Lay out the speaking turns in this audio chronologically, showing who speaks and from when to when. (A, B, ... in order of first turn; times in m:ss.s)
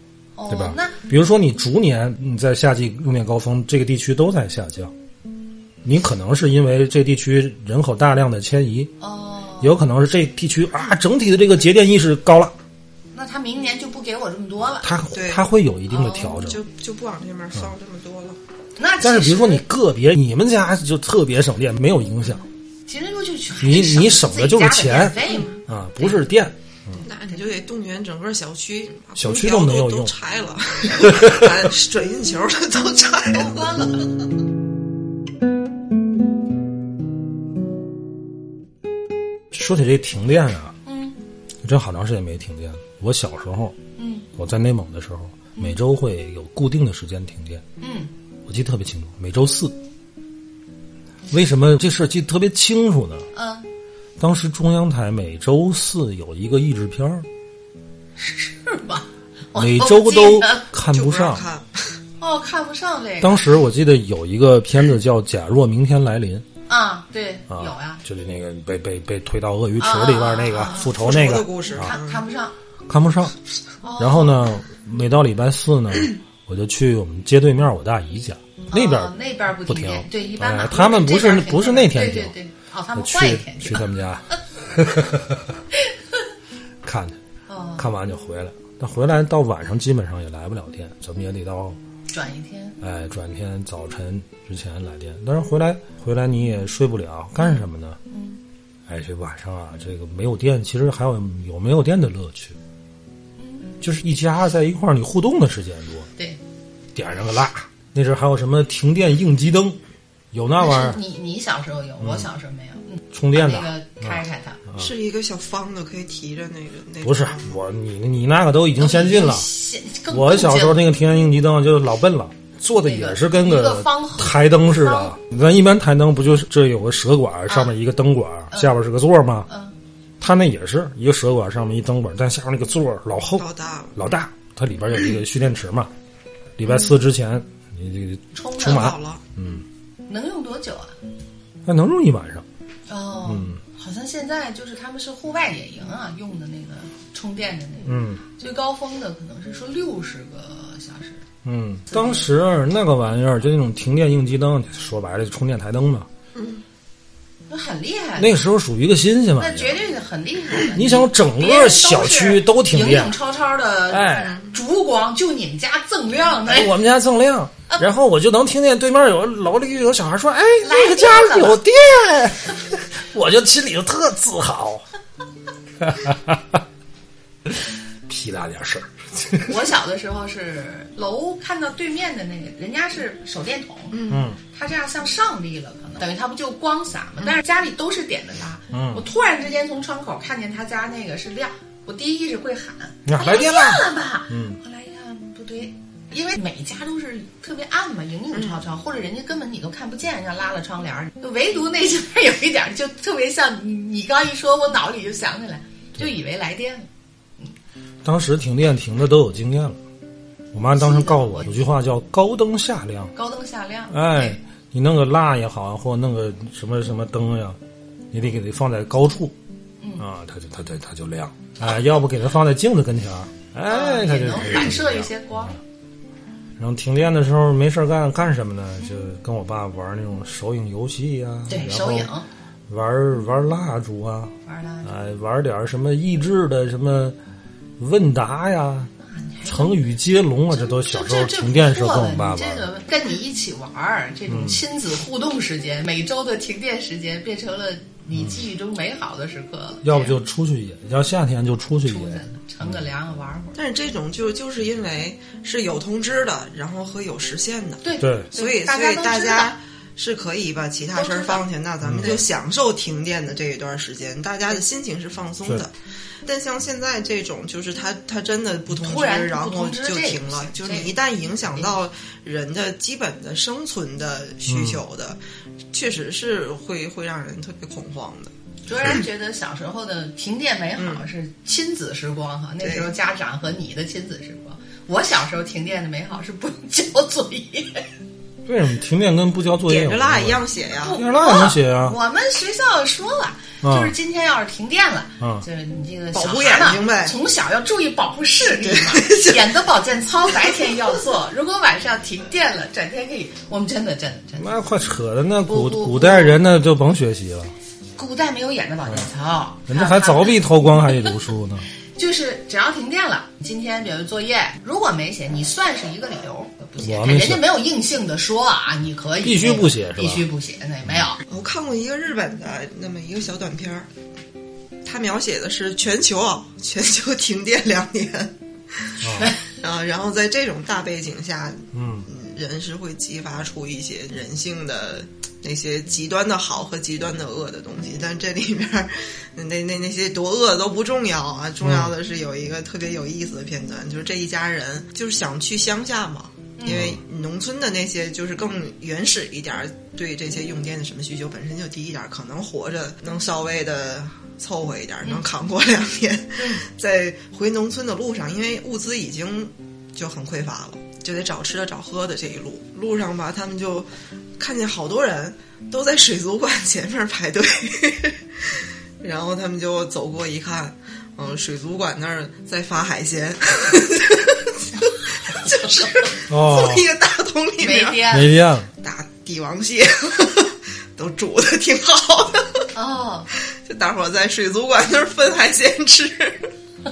0:00.4-0:01.0 A
0:00.5-0:04.9 B
0:05.8-0:08.9 B
0:09.0-0:09.8 A
0:09.6-0:12.5 B
0:13.1-0:14.9 A
0:14.8-0:16.6 B
0:15.1-0:15.4 C
0:15.9-0:16.4 A
0:16.1-0:18.4 C
0:18.8-0:19.6 A
0:19.0-0:22.4 B
0:22.9-0:26.2 A
0:23.6-0:27.0 B
0:25.2-0:25.5 C
0:27.0-0:34.0 C
0:29.2-0:30.1 B
0:31.0-0:31.6 B
0:33.3-0:34.1 A
0:39.5-0:40.7 B
0:40.8-0:41.2 A
0:41.6-0:43.8 B
0:44.0-0:44.3 A
0:44.3-0:47.6 B
0:47.8-0:48.1 A
0:48.4-0:49.8 B
0:51.3-0:53.3 B
0:53.3-0:53.7 A
0:54.2-0:57.3 B
0:58.2-1:00.7 A
0:59.5-1:01.4 B
1:00.8-1:02.0 C
1:02.2-1:03.4 A
1:03.2-1:06.4 B
1:06.7-1:08.0 A
1:07.5-1:11.9 B
1:09.8-1:10.9 A
1:10.6-1:12.2 C
1:11.7-1:12.5 A
1:12.9-1:13.3 B
1:13.8-1:14.4 A
1:14.0-1:22.3 B
1:18.7-1:23.9 A
1:23.0-1:25.6 B
1:26.8-1:27.2 B
1:27.5-1:27.9 A
1:27.8-1:31.8 B
1:32.1-1:32.8 A
1:32.8-1:38.0 B
1:37.4-1:38.4 A
1:38.9-1:42.6 B
1:43.4-1:43.8 A
1:43.8-1:46.1 B
1:46.9-1:49.8 B
1:50.3-1:51.0 B
1:50.6-1:54.6 A
1:52.0-1:52.3 B
1:53.1-1:54.9 B
1:54.8-1:57.6 C
1:57.0-1:59.5 B
1:58.8-2:00.8 A
2:00.1-2:09.5 B
2:02.8-2:05.2 A
2:09.5-2:09.7 A
2:10.2-2:15.9 B
2:13.4-2:14.0 C
2:16.6-2:19.6 B
2:18.3-2:18.9 A
2:18.6-2:19.2 C
2:20.1-2:21.0 A
2:21.6-2:22.4 B
2:22.9-2:31.2 A
2:23.2-2:23.6 B
2:27.8-2:28.2 B
2:31.4-2:36.1 B
2:31.9-2:32.3 A
2:36.3-2:36.6 C
2:37.5-2:38.4 A
2:38.2-2:39.8 B
2:39.4-2:46.7 A
2:40.7-2:43.2 B
2:43.9-2:44.4 B
2:44.2-2:44.5 C
2:46.4-2:54.8 B
2:50.6-2:51.6 A
2:55.8-2:56.6 B
2:58.1-2:59.5 B
2:59.4-3:26.9 A
3:03.9-3:04.3 C
3:04.1-3:04.4 B
3:08.7-3:09.0 B
3:13.0-3:14.6 B
3:18.3-3:18.6 C
3:28.0-3:29.8 B
3:30.5-3:33.1 B
3:30.7-3:31.6 A
3:33.1-3:34.4 A
3:33.9-3:37.6 B
3:38.1-3:39.4 B
3:39.8-3:40.0 A
3:40.0-3:45.5 B
3:43.7-3:45.6 A
3:46.6-3:52.1 B
3:51.5-3:52.3 A
3:52.7-3:57.2 B
3:54.4-3:54.9 A
3:57.8-3:58.9 B
3:59.0-3:59.8 A
3:59.4-4:02.7 B
4:00.5-4:10.2 A
4:04.3-4:04.6 B
4:09.8-4:12.7 B
4:11.8-4:13.6 A
4:13.6-4:25.7 C
4:17.8-4:19.5 A
4:18.0-4:18.3 B
4:20.9-4:21.4 A
4:21.8-4:22.2 B
4:26.2-4:35.2 C
4:28.7-4:30.9 A
4:31.5-4:31.8 A
4:34.5-4:34.8 B
4:35.7-4:38.3 C
4:38.6-4:47.9 A
4:40.8-4:41.0 C
4:42.6-4:42.9 C
4:48.4-4:52.0 B
4:49.6-4:51.0 C
4:50.8-5:04.6 A
4:53.6-4:53.9 B
4:56.1-4:57.1 C
4:58.4-4:59.5 C
5:04.4-5:07.5 B
5:05.5-5:06.4 A
5:08.0-5:11.1 A
5:09.7-5:11.6 B
5:12.0-5:21.2 A
5:16.8-5:17.4 B
5:19.2-5:20.2 B
5:21.3-5:23.9 C
5:24.8-6:18.1 C
5:29.0-5:29.3 B
5:29.1-5:29.4 A
5:31.7-5:32.0 B
5:41.6-5:41.9 B
5:46.6-5:46.9 A
5:46.7-5:47.0 B
5:56.4-5:56.6 A
6:15.6-6:16.1 A
6:16.3-6:16.9 B
6:17.6-6:18.4 A
6:18.1-6:18.7 B
6:18.8-6:22.7 C
6:22.7-6:23.3 A
6:23.5-6:26.5 C